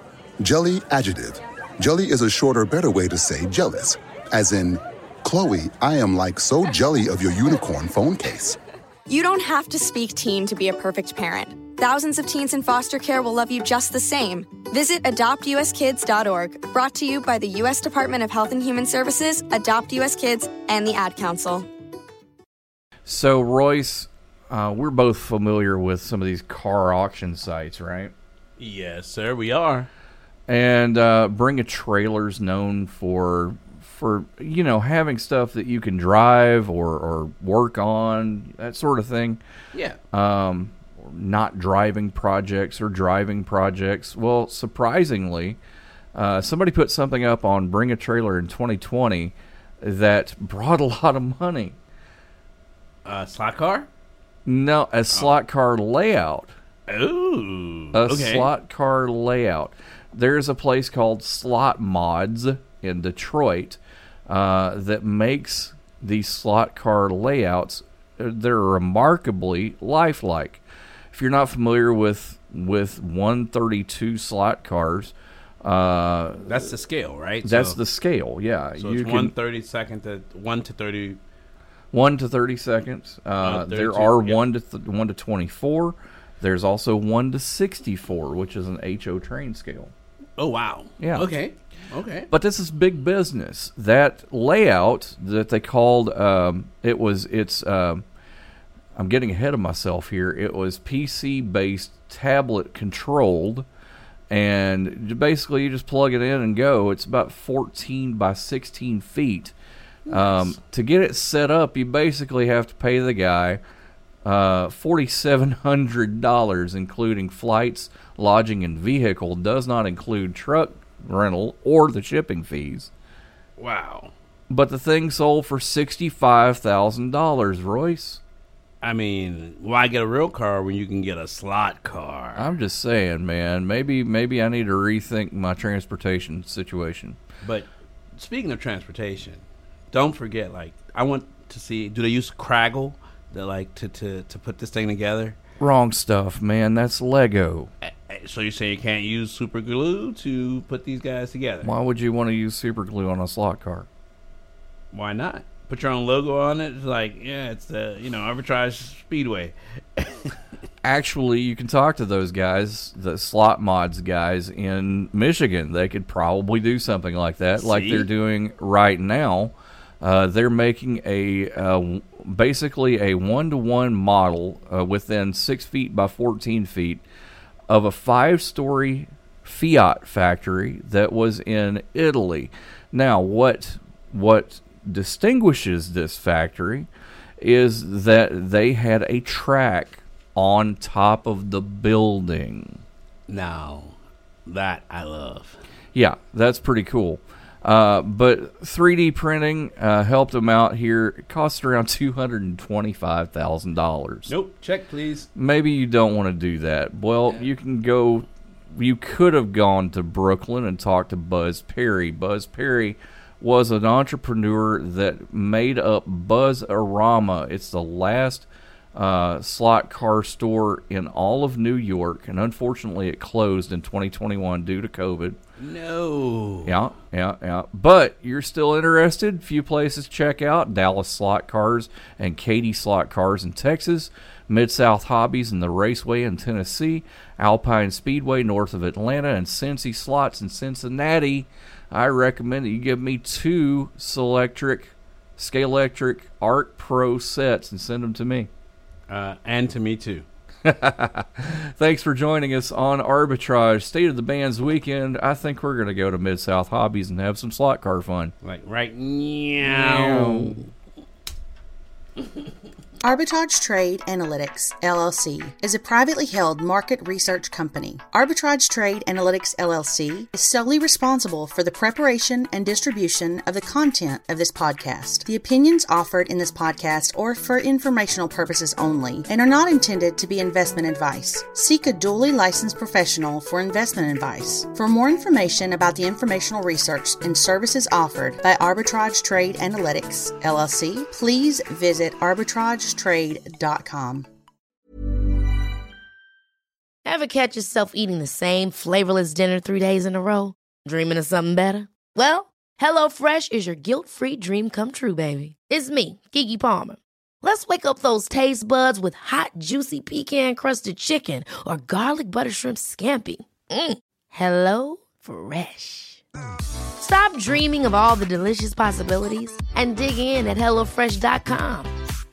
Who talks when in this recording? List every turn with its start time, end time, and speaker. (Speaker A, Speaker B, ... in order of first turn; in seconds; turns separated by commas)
Speaker A: 0.4-8.6, Speaker B: 9.1-21.7, Speaker C: 23.1-28.1, Speaker D: 28.6-29.9, Speaker C: 30.5-39.4, Speaker C: 40.1-45.6, Speaker C: 46.1-51.8, Speaker D: 53.0-53.9, Speaker C: 54.5-56.5, Speaker D: 56.9-58.5, Speaker C: 57.9-76.7, Speaker D: 76.5-77.8, Speaker C: 77.4-79.3, Speaker D: 78.8-81.2, Speaker C: 81.9-89.9, Speaker D: 83.4-84.4, Speaker D: 90.4-92.3, Speaker C: 91.0-91.3, Speaker C: 92.3-98.0, Speaker C: 99.0-103.7, Speaker C: 104.3-109.5, Speaker D: 110.1-110.6, Speaker C: 110.1-113.6, Speaker C: 114.2-122.9, Speaker D: 123.6-124.1, Speaker C: 124.5-128.2, Speaker D: 128.8-132.5, Speaker C: 132.3-137.2, Speaker D: 137.4-145.4, Speaker C: 145.6-147.7, Speaker D: 147.8-151.7, Speaker C: 151.6-153.9, Speaker D: 154.9-160.3, Speaker C: 160.8-177.0, Speaker D: 167.6-168.1, Speaker C: 177.7-186.9, Speaker C: 187.4-192.8, Speaker D: 193.3-195.6, Speaker C: 195.9-204.3, Speaker D: 204.3-205.3, Speaker C: 205.3-225.4, Speaker D: 225.6-226.7, Speaker C: 226.6-248.5, Speaker D: 249.1-250.2, Speaker C: 250.6-258.3, Speaker D: 258.4-260.6, Speaker C: 259.6-260.6, Speaker E: 263.0-294.3, Speaker F: 297.0-316.2, Speaker F: 317.0-321.9